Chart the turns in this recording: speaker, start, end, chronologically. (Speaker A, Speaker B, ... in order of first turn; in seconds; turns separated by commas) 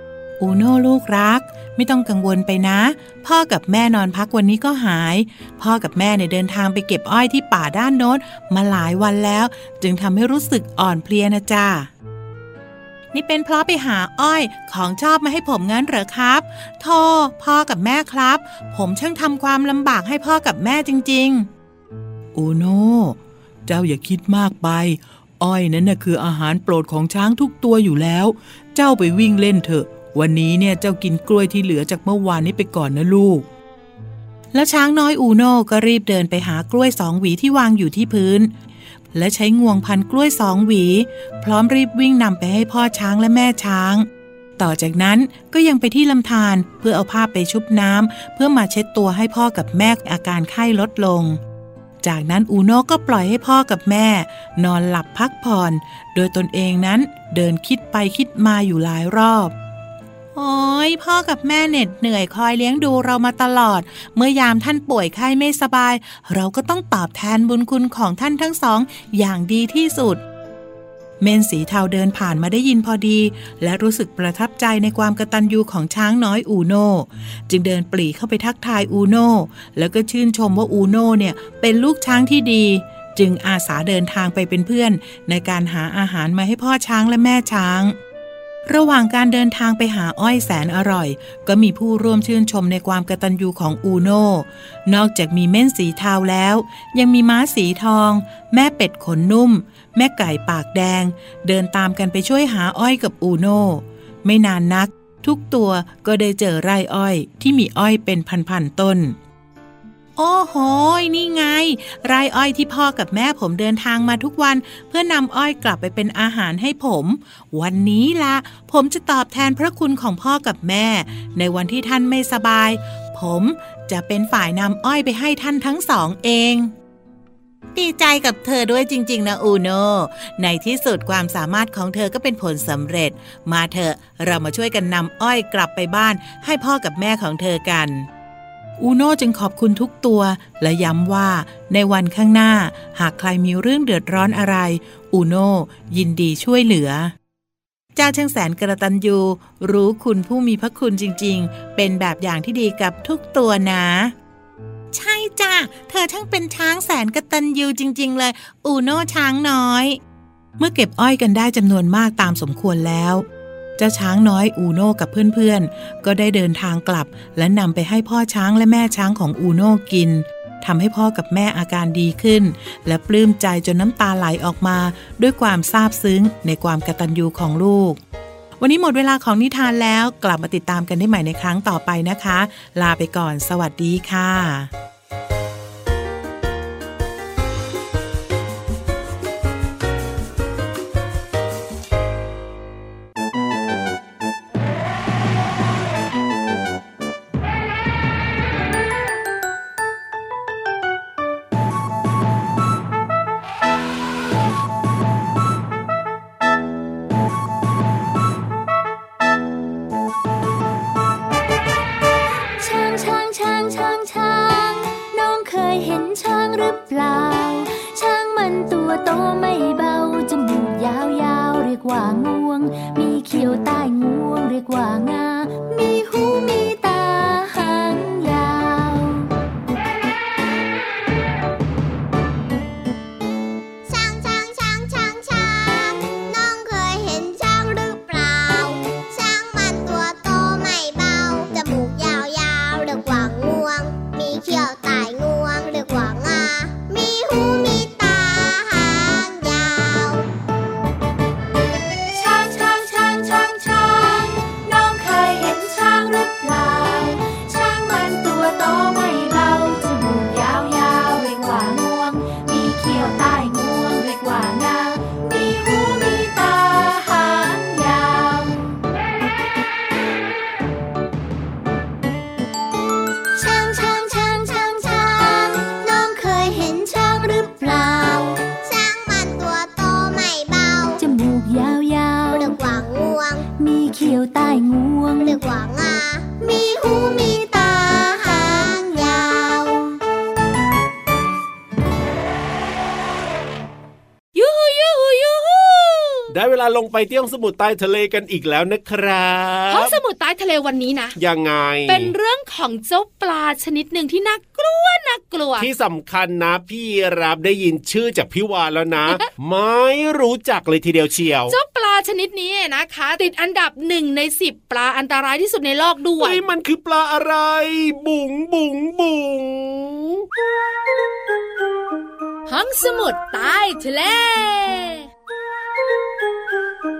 Speaker A: 0.4-11.9, Speaker A: 13.1-21.5, Speaker A: 22.3-33.5, Speaker A: 34.5-38.5, Speaker A: 39.1-51.4, Speaker A: 52.0-59.5, Speaker A: 60.3-70.2, Speaker A: 71.2-88.0, Speaker A: 88.7-109.2, Speaker A: 110.2-126.7, Speaker A: 127.7-138.1, Speaker A: 138.8-147.1, Speaker A: 147.9-154.2, Speaker A: 154.9-160.0, Speaker A: 160.6-163.2, Speaker A: 163.8-178.0, Speaker A: 178.6-184.7, Speaker B: 212.6-229.3, Speaker C: 233.8-250.3, Speaker B: 252.1-268.8, Speaker C: 273.4-281.0, Speaker B: 281.0-282.6, Speaker C: 282.3-283.4, Speaker B: 283.6-285.4, Speaker C: 285.2-290.0, Speaker D: 294.3-296.3, Speaker E: 296.3-299.9, Speaker D: 299.7-301.2, Speaker E: 301.2-302.1, Speaker D: 301.9-305.7, Speaker E: 305.6-311.6, Speaker D: 311.5-316.4, Speaker E: 316.2-320.3, Speaker D: 322.5-325.1